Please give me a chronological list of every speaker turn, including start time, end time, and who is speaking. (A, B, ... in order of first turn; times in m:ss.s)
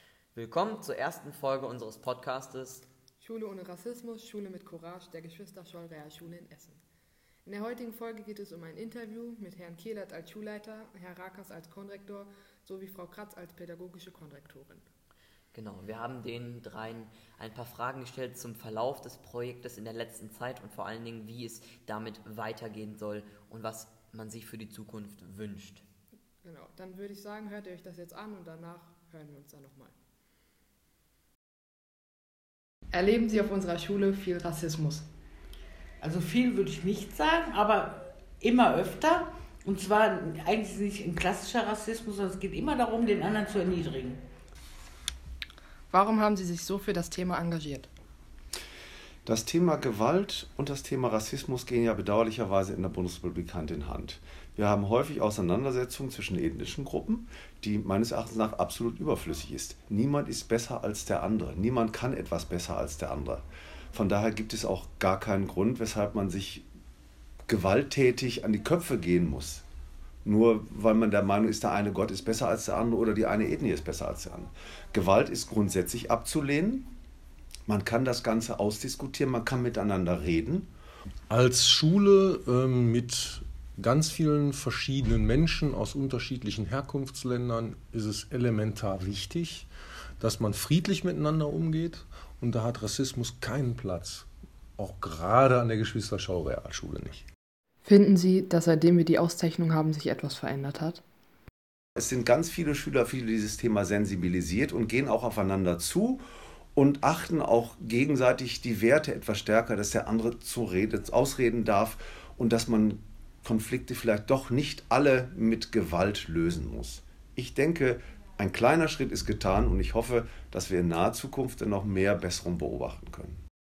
0:00.3-0:02.8 A
0:03.2-0:06.8 B
0:07.4-0:14.8 B
0:15.5-0:25.8 A
0:26.4-0:29.9 B
0:32.9-0:35.1 B
0:36.0-0:44.2 C
0:45.9-0:47.9 B
0:49.2-1:06.6 D
1:07.5-1:09.6 D
1:10.2-1:16.9 D
1:17.7-1:20.7 D
1:21.3-1:29.7 E
1:30.2-1:34.3 E
1:34.8-1:37.2 E
1:37.8-1:41.0 B
1:42.0-1:46.2 D
1:46.7-2:03.4 D